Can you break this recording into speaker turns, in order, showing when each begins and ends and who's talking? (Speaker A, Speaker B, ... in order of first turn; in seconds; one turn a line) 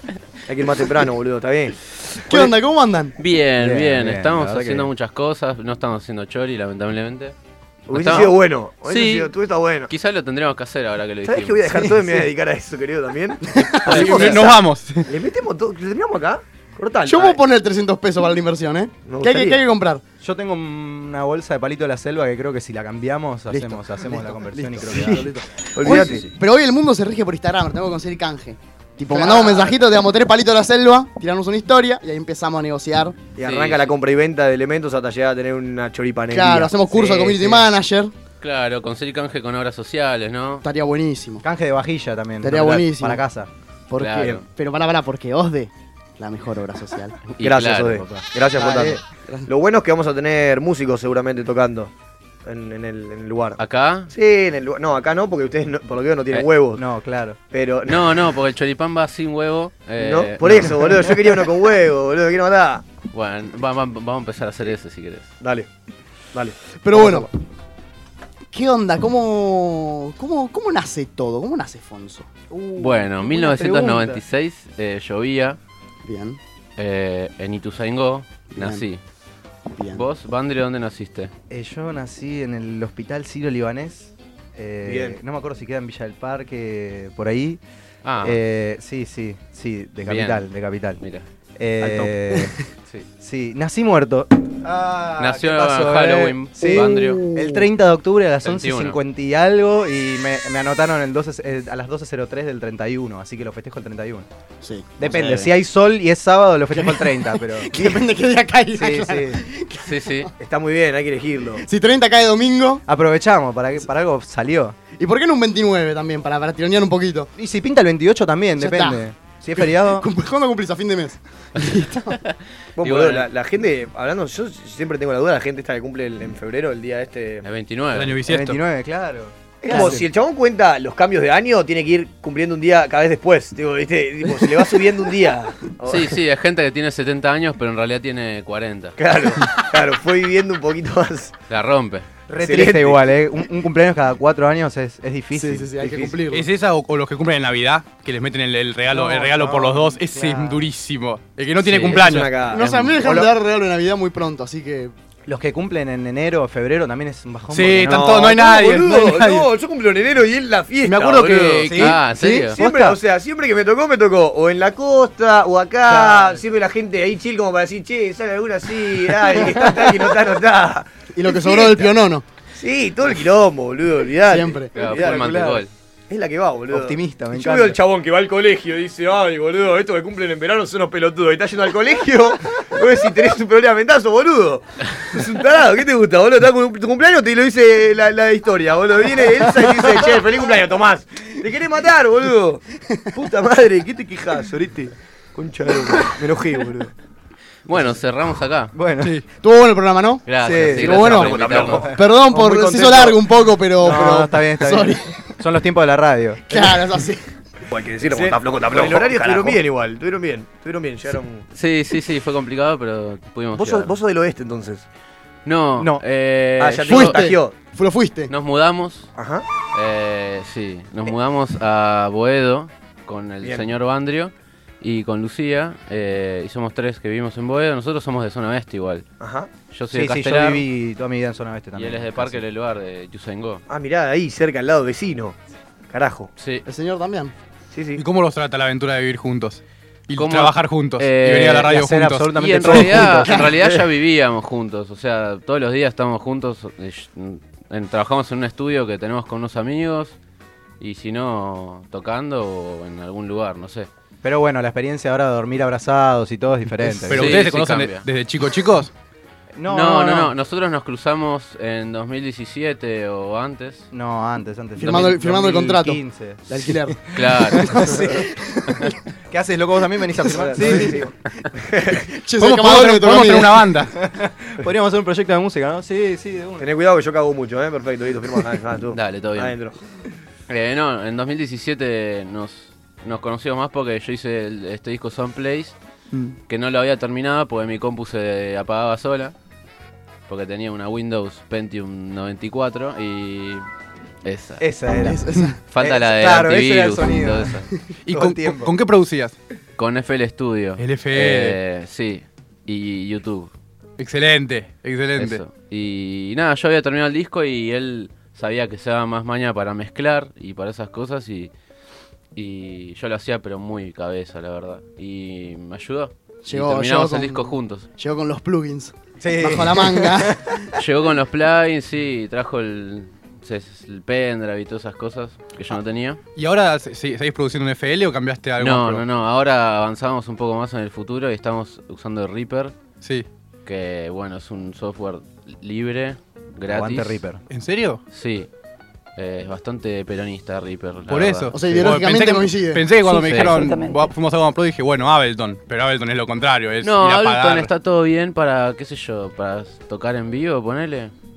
Speaker A: 0.5-1.7
Speaker B: 2.2-3.1
Speaker C: 3.2-7.3
Speaker D: 3.6-4.9
Speaker A: 7.9-9.9
Speaker C: 7.9-9.3
Speaker C: 9.9-11.6
Speaker A: 11.2-17.4
Speaker D: 11.7-12.2
Speaker B: 13.4-14.4
Speaker E: 13.8-15.1
Speaker B: 17.1-20.0
Speaker A: 19.1-19.6
Speaker D: 20.2-25.3
Speaker B: 23.5-33.2
Speaker A: 24.9-26.2
Speaker D: 25.8-26.2
Speaker A: 29.1-29.7
Speaker A: 33.4-37.3
Speaker C: 33.4-33.9
Speaker B: 36.3-38.1
Speaker C: 37.2-37.5
Speaker C: 38.4-40.6
Speaker B: 40.6-41.4
Speaker D: 41.4-43.5
Speaker B: 42.4-43.2
Speaker B: 43.9-47.1
Speaker C: 44.0-44.5
Speaker C: 47.3-48.1
Speaker A: 47.4-51.9
Speaker B: 48.6-49.5
Speaker D: 48.6-48.9
Speaker A: 52.4-56.8
Speaker C: 53.6-54.1
Speaker D: 56.8-57.4
Speaker A: 57.5-58.2
Speaker C: 57.9-60.8
Speaker A: 60.0-62.8
Speaker C: 63.1-65.3
Speaker A: 65.4-65.7
Speaker A: 66.3-67.3
Speaker B: 66.8-67.3
Speaker B: 68.5-72.3
Speaker D: 72.5-74.2
Speaker C: 72.8-75.6
Speaker B: 76.0-76.4
Speaker C: 76.8-79.0
Speaker B: 78.5-78.8
Speaker B: 79.7-80.1
Speaker C: 79.9-81.3
Speaker D: 81.5-87.6
Speaker A: 84.8-85.2
Speaker C: 88.0-88.4
Speaker D: 88.2-91.0
Speaker C: 90.0-90.5
Speaker C: 91.0-91.2
Speaker D: 91.6-92.5
Speaker D: 93.2-104.3
Speaker C: 95.2-97.2
Speaker B: 96.6-97.6
Speaker C: 98.4-99.0
Speaker B: 104.6-105.4
Speaker D: 105.0-108.1
Speaker B: 106.7-110.3
Speaker D: 108.7-109.5
Speaker C: 109.8-110.3
Speaker A: 110.4-111.6
Speaker B: 111.6-112.8
Speaker D: 112.8-114.8
Speaker B: 115.0-117.3
Speaker D: 117.3-120.1
Speaker B: 118.6-119.0
Speaker B: 119.6-122.2
Speaker C: 122.1-123.3
Speaker A: 122.8-127.5
Speaker C: 127.4-128.2
Speaker E: 127.9-128.6
Speaker D: 128.3-130.1
Speaker A: 129.6-136.2
Speaker B: 129.7-130.0
Speaker C: 135.8-138.9
Speaker A: 139.0-141.3
Speaker C: 141.5-142.1
Speaker D: 142.3-145.7
Speaker A: 142.3-143.1
Speaker B: 145.3-146.4
Speaker A: 145.8-146.2
Speaker E: 146.3-152.3
Speaker D: 148.9-150.1
Speaker B: 150.1-150.6
Speaker C: 151.7-153.2
Speaker A: 151.7-153.3
Speaker B: 152.5-154.9
Speaker D: 155.3-158.0
Speaker E: 157.5-159.5
Speaker A: 157.8-171.9
Speaker E: 160.8-161.9
Speaker C: 161.7-162.6
Speaker D: 161.7-162.0
Speaker B: 162.2-162.9
Speaker D: 162.7-162.9
Speaker D: 165.9-166.4
Speaker D: 169.3-169.9
Speaker B: 171.1-172.2
Speaker A: 172.5-196.9
Speaker B: 174.2-174.7
Speaker C: 174.7-175.7
Speaker D: 175.1-175.6
Speaker D: 176.7-177.8
Speaker C: 197.7-198.7
Speaker D: 198.7-199.2
Speaker B: 199.4-205.3
Speaker C: 200.2-201.9
Speaker D: 200.4-201.8
Speaker A: 200.8-203.2
Speaker D: 203.8-207.0
Speaker B: 206.5-207.3
Speaker A: 207.7-211.5
Speaker D: 208.0-209.6
Speaker C: 211.5-213.9
Speaker A: 213.5-214.8
Speaker C: 215.4-217.2
Speaker D: 215.8-216.0
Speaker A: 216.6-217.5
Speaker B: 216.9-218.3
Speaker C: 218.3-219.1
Speaker A: 219.2-219.4
Speaker C: 219.7-229.1
Speaker A: 223.4-223.7
Speaker A: 229.2-229.5
Speaker C: 229.7-230.7
Speaker D: 229.9-232.4
Speaker C: 231.8-233.6
Speaker A: 233.7-235.4
Speaker A: 235.9-236.3
Speaker C: 236.4-236.6
Speaker B: 236.7-237.3
Speaker A: 237.7-238.0
Speaker E: 238.0-242.8
Speaker C: 240.2-241.7
Speaker D: 241.6-243.6
Speaker C: 242.3-250.2
Speaker C: 250.8-253.9
Speaker D: 254.2-257.4
Speaker E: 257.1-258.9
Speaker C: 257.1-258.1
Speaker D: 259.5-260.3
Speaker C: 259.6-263.9
Speaker D: 263.9-268.2
Speaker B: 264.8-269.0
Speaker C: 267.1-267.6
Speaker D: 269.3-271.1
Speaker B: 270.2-270.9
Speaker A: 270.4-270.8
Speaker A: 271.7-272.0
Speaker B: 271.9-273.7
Speaker E: 272.4-273.9
Speaker D: 274.0-276.6
Speaker A: 276.6-279.8
Speaker C: 278.9-279.6
Speaker C: 280.5-285.8
Speaker C: 286.5-289.3
Speaker C: 290.3-293.6
Speaker C: 294.2-294.6
Speaker D: 294.6-295.2
Speaker B: 294.9-295.6
Speaker C: 295.6-297.7
Speaker D: 295.8-298.7
Speaker E: 298.0-299.4
Speaker C: 299.8-303.5
Speaker E: 300.8-301.6
Speaker E: 304.0-305.4
Speaker C: 305.1-311.5
Speaker C: 312.3-317.9
Speaker B: 316.4-320.7
Speaker D: 319.2-320.6
Speaker C: 320.8-326.2
Speaker E: 326.4-329.0
Speaker C: 328.6-332.7
Speaker C: 333.6-337.2
Speaker D: 336.7-337.4
Speaker E: 337.5-338.0
Speaker C: 338.1-338.5
Speaker C: 339.1-341.5
Speaker E: 341.1-347.7
Speaker B: 341.5-343.9
Speaker C: 343.1-343.5
Speaker C: 346.8-351.1